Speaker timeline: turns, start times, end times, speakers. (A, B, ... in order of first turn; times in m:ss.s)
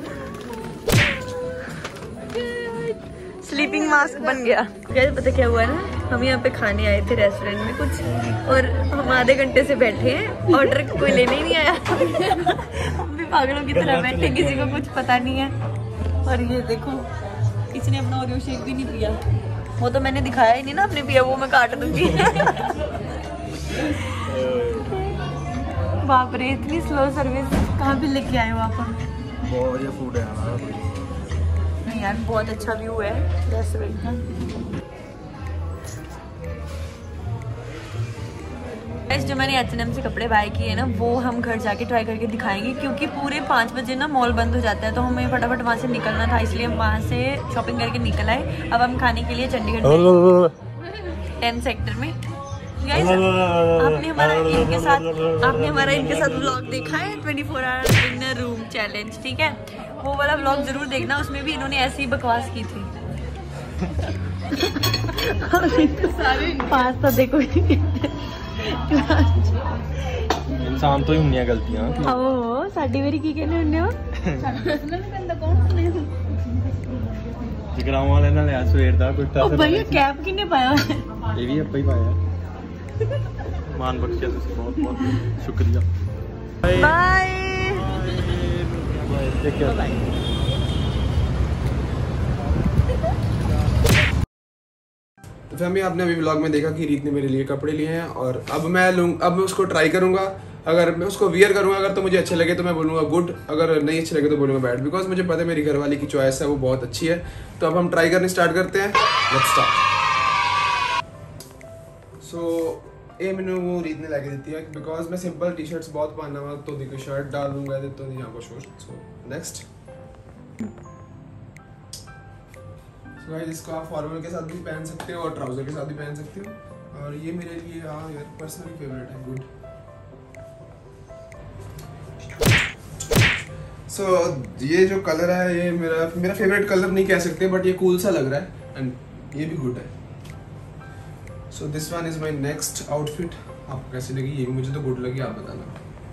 0:03.4-0:15.5 A
0:13.7-0:14.8 B
0:16.2-0:17.1 A
0:17.7-0:19.2 A
0:19.8-0:22.7 A
0:24.3-0:24.8 B
0:24.9-0:25.2 A
0:26.0-0:29.0 A
0:29.4-0:30.9 B
0:31.8-0:34.2 A
0:39.1-0:50.3 A
0:50.2-0:50.5 B
0:51.4-0:52.2 A
0:52.8-1:02.9 A
0:53.0-0:56.4 B
1:04.5-1:09.6 A
1:10.6-1:12.1 B
1:12.0-1:14.0 A
1:15.5-1:15.8 A
1:17.7-1:20.0 B
1:19.4-1:21.1 A
1:21.3-1:22.2 B
1:23.7-1:25.8 B
1:26.6-1:27.0 B
1:26.7-1:27.9 A
1:27.7-1:30.0 B
1:29.7-1:30.0 A
1:35.5-1:49.8 C
1:52.2-1:59.6 C
2:03.2-2:09.5 C
2:13.9-2:19.9 C
2:21.5-2:25.8 C